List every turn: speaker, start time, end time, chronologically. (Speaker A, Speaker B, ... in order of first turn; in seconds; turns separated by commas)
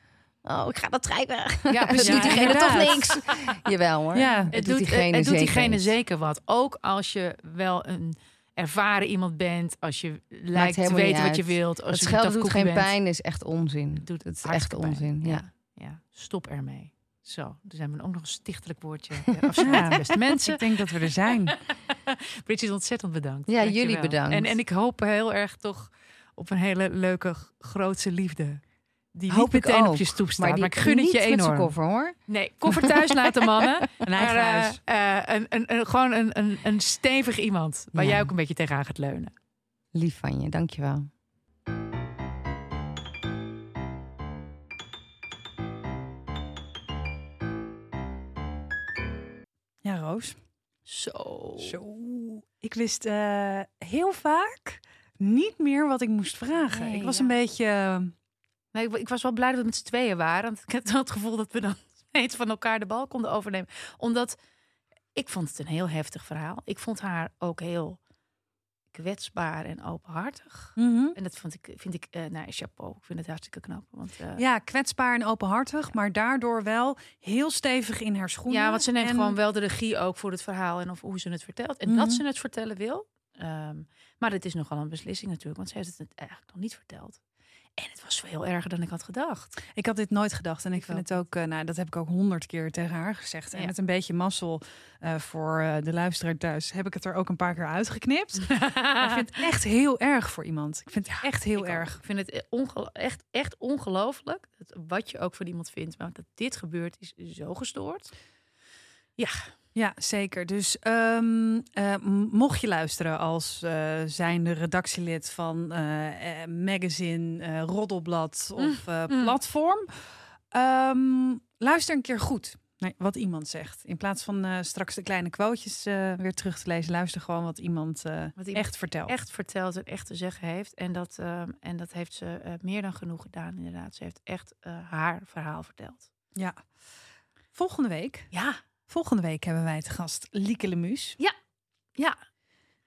Speaker A: 0.4-5.9, Speaker B: 1.7-3.6, Speaker C: 2.0-3.1, Speaker C: 4.1-4.5, Speaker B: 4.5-13.0, Speaker A: 10.5-15.5, Speaker B: 14.0-20.9, Speaker C: 19.6-21.6, Speaker B: 21.5-31.7, Speaker A: 23.5-24.6, Speaker A: 29.3-33.0, Speaker B: 32.3-39.3, Speaker C: 34.0-34.8, Speaker A: 37.9-38.3, Speaker A: 39.9-41.1, Speaker C: 49.8-50.4, Speaker B: 50.9-51.8, Speaker C: 51.6-58.1, Speaker B: 56.7-57.4, Speaker B: 58.7-64.4, Speaker B: 65.2-68.0, Speaker B: 68.9-74.4, Speaker C: 70.8-71.2, Speaker C: 74.4-79.4, Speaker B: 78.5-87.2, Speaker C: 81.9-82.2, Speaker B: 87.8-89.7, Speaker C: 89.7-102.0, Speaker B: 90.8-91.1, Speaker B: 98.5-99.2, Speaker B: 101.1-108.2, Speaker B: 109.2-109.5, Speaker C: 109.8-129.2, Speaker B: 118.6-119.4, Speaker B: 128.4-136.1, Speaker C: 136.3-136.7, Speaker C: 137.5-138.3, Speaker B: 138.3-138.6, Speaker C: 138.9-141.2